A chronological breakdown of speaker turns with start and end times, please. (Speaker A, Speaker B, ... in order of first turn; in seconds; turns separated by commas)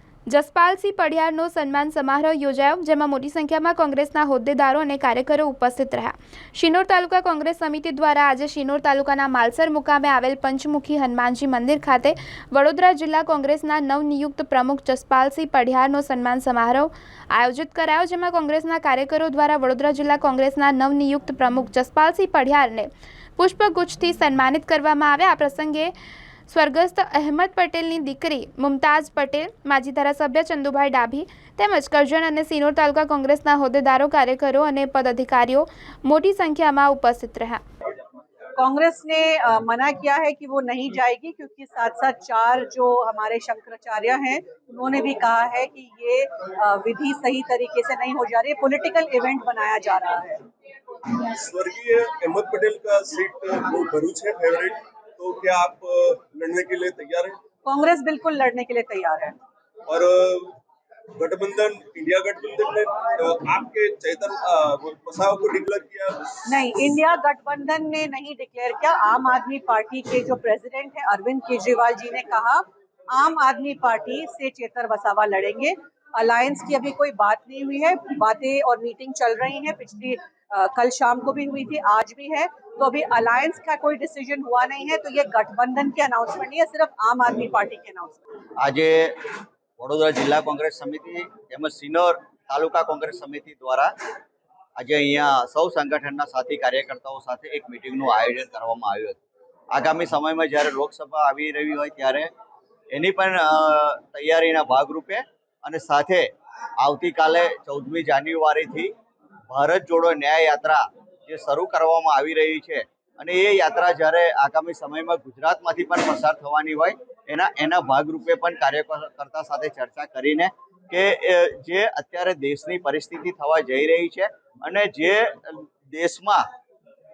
Speaker A: 0.3-25.9, Speaker A: 26.5-37.6, Speaker B: 38.6-50.4, Speaker C: 51.3-57.4, Speaker B: 57.7-59.3, Speaker C: 59.9-60.6, Speaker C: 61.2-66.4, Speaker B: 66.5-72.6, Speaker B: 73.1-88.2, Speaker D: 88.6-93.9, Speaker D: 94.8-99.2, Speaker D: 99.7-102.3, Speaker D: 102.9-106.3, Speaker D: 106.8-108.9, Speaker D: 109.5-126.4